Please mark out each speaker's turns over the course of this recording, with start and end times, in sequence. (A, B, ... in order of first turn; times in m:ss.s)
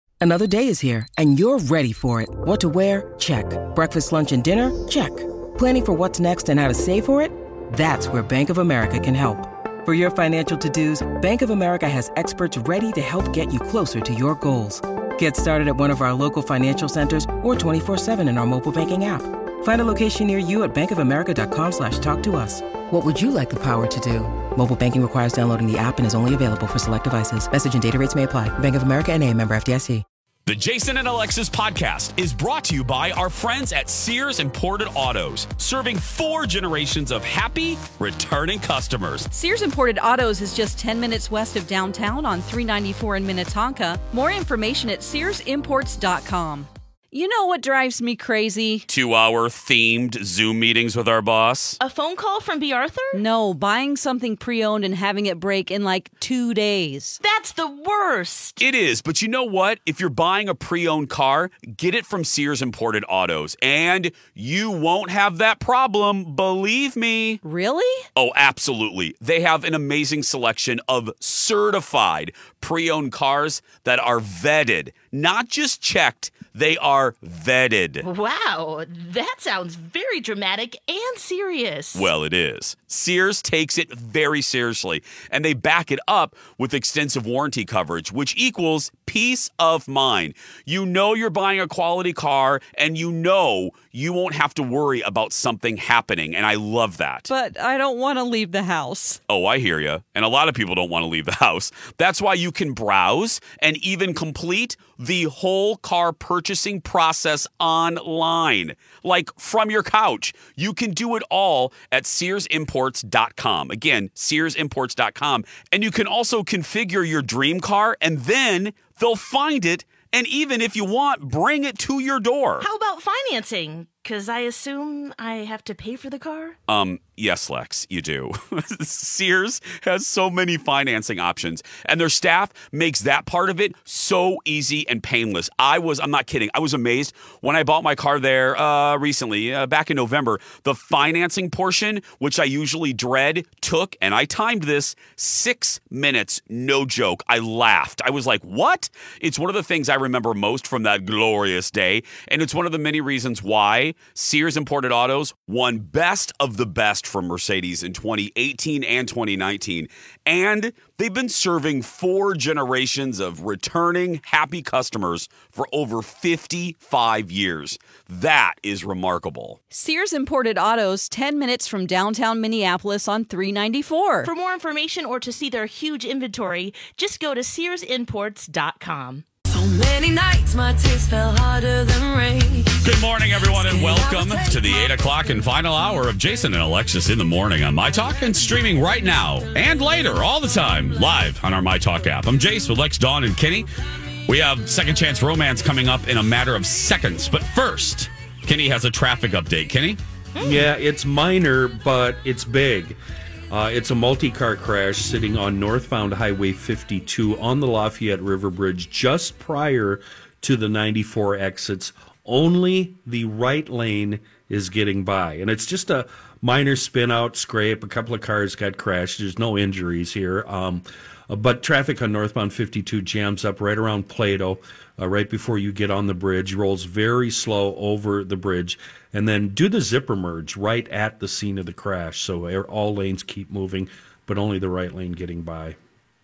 0:00.2-0:30.0 A
0:30.4-0:39.3 B
0:39.3-0:48.9 C
0:48.9-0:51.8 B
0:51.8-0:53.2 D
0:53.1-0:57.2 C
0:57.2-0:58.6 D
0:58.6-1:07.4 B
1:07.4-1:08.0 C
1:08.2-1:18.0 B
1:18.0-1:22.1 D
1:21.9-1:37.3 B
1:37.3-1:39.2 C
1:39.3-2:02.7 B
2:02.6-2:06.6 D
2:06.7-2:49.6 B
2:49.7-2:54.3 C
2:54.2-2:59.2 D
2:59.5-3:04.9 E
3:02.8-3:13.7 B
3:14.2-3:20.0 B
3:20.3-3:20.6 D
3:20.4-3:23.0 F
3:23.5-3:55.8 F